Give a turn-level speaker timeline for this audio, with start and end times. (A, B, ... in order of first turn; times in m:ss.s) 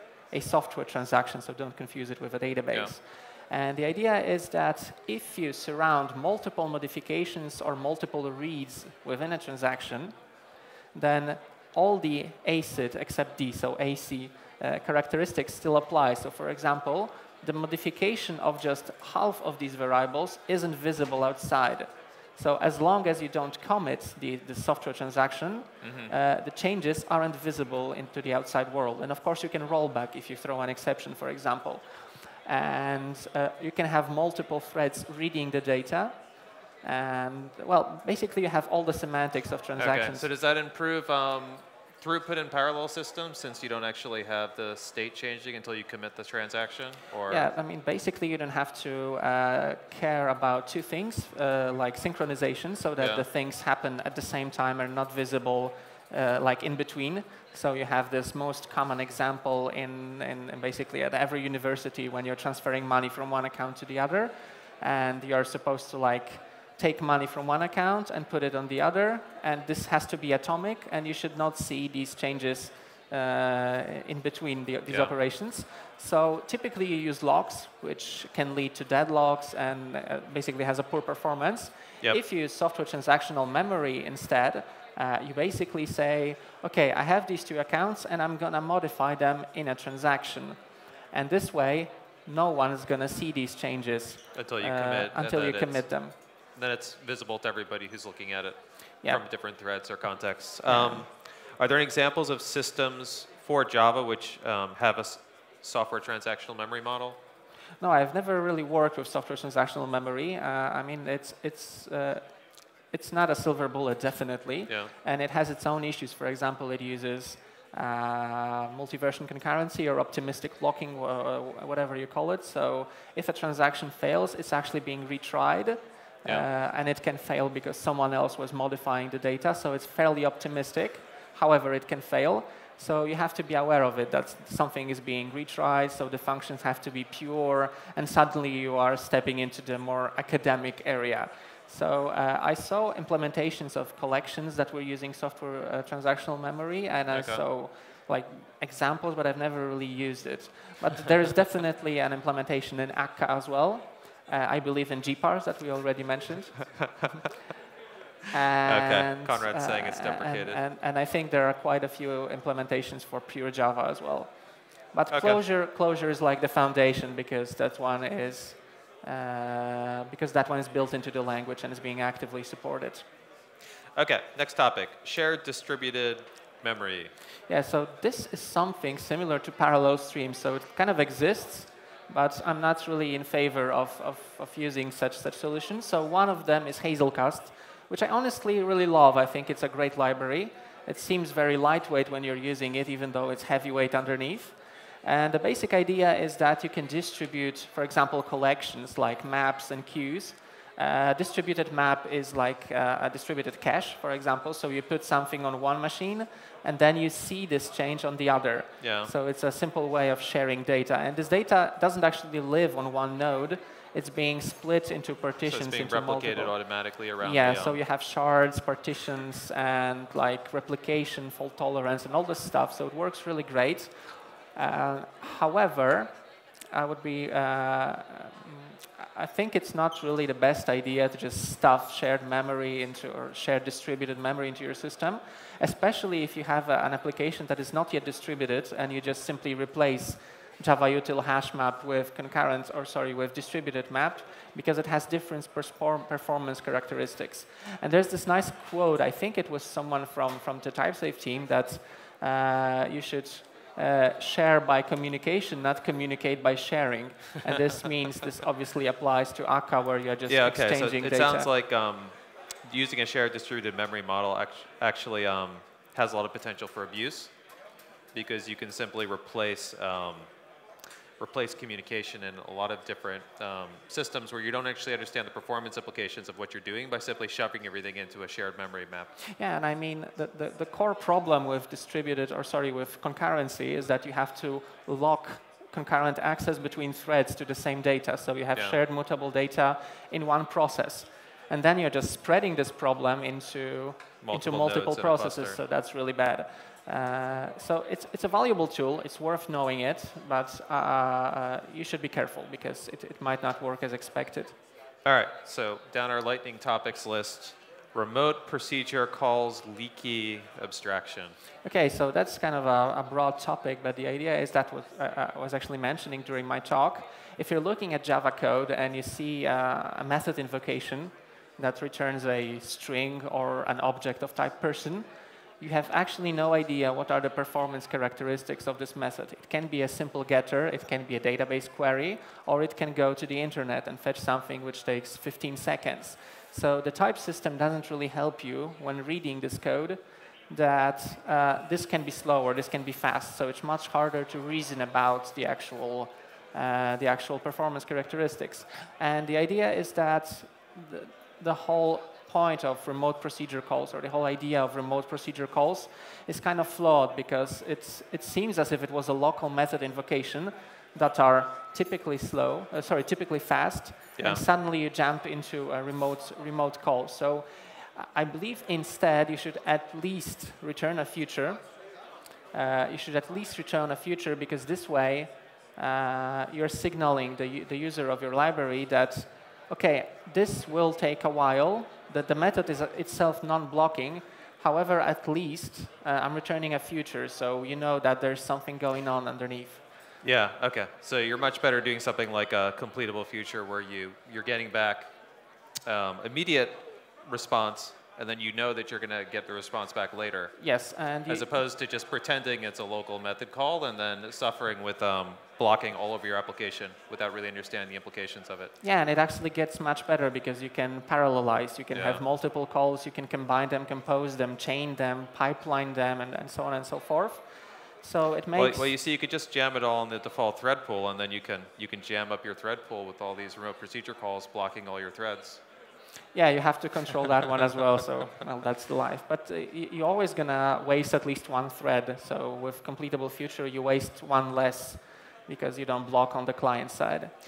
0:00.3-0:10.2 A
0:10.9-0:36.2 A
0:25.8-0:26.1 B
0:36.8-0:40.3 A
0:39.8-0:47.5 B
0:47.3-1:36.2 A
1:34.4-1:47.2 B
1:40.7-1:41.0 A
1:47.8-1:52.3 A
1:52.9-2:36.9 A
2:27.1-2:27.4 B
2:38.3-2:53.0 A
2:38.7-2:40.6 B
2:45.1-2:45.4 B
2:54.0-2:57.1 B
2:57.5-3:46.1 A
3:28.8-3:29.1 B
3:35.5-3:37.8 B
3:46.7-4:21.5 A
4:20.3-4:27.4 B
4:28.1-4:30.3 B
4:31.2-4:39.1 B
4:39.4-5:04.6 A
4:54.2-4:55.6 B
5:05.0-5:11.4 B
5:11.6-5:25.1 A
5:25.6-6:11.7 A
6:12.5-6:29.8 A
6:30.2-6:35.1 B
6:35.9-6:40.6 B
6:40.6-6:41.5 A
6:41.3-6:48.7 B
6:48.8-6:57.5 A
6:51.9-6:52.2 B
6:58.0-6:58.9 A
6:58.6-7:05.6 B
7:06.3-7:17.3 A